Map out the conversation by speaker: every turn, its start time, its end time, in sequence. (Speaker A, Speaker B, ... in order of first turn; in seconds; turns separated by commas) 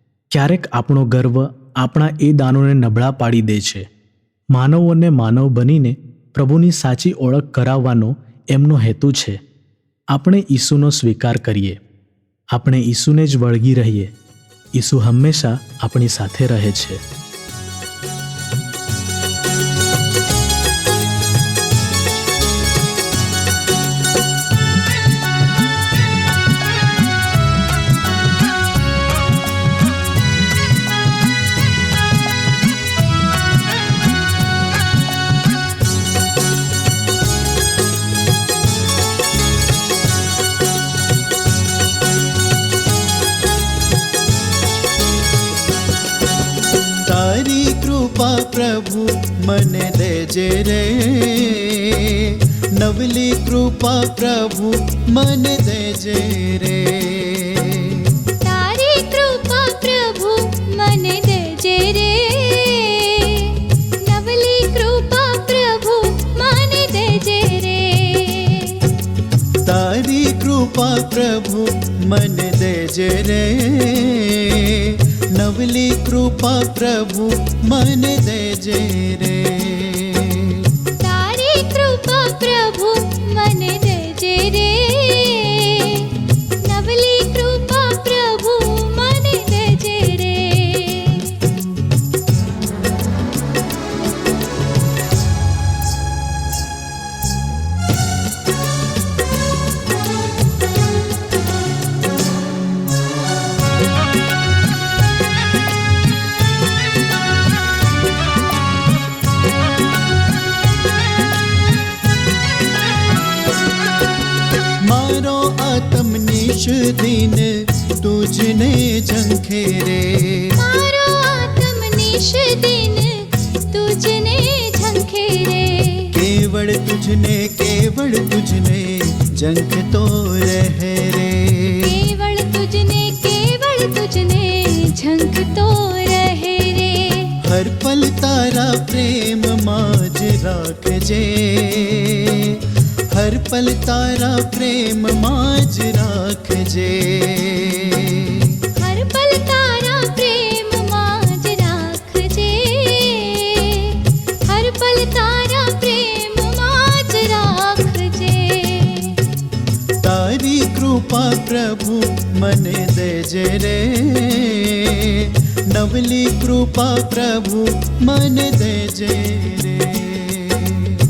Speaker A: 0.3-3.9, Speaker A: 4.5-9.4, Speaker A: 10.1-11.8, Speaker A: 12.5-14.1, Speaker A: 14.8-17.0, Speaker B: 47.1-52.2, Speaker B: 52.8-58.0, Speaker C: 58.4-68.9, Speaker B: 69.7-80.6, Speaker C: 81.0-91.4, Speaker B: 114.9-117.5, Speaker B: 118.0-120.5, Speaker C: 120.6-126.0, Speaker B: 126.1-131.8, Speaker C: 131.8-137.3, Speaker B: 137.5-148.6, Speaker C: 148.8-159.2, Speaker B: 160.0-170.9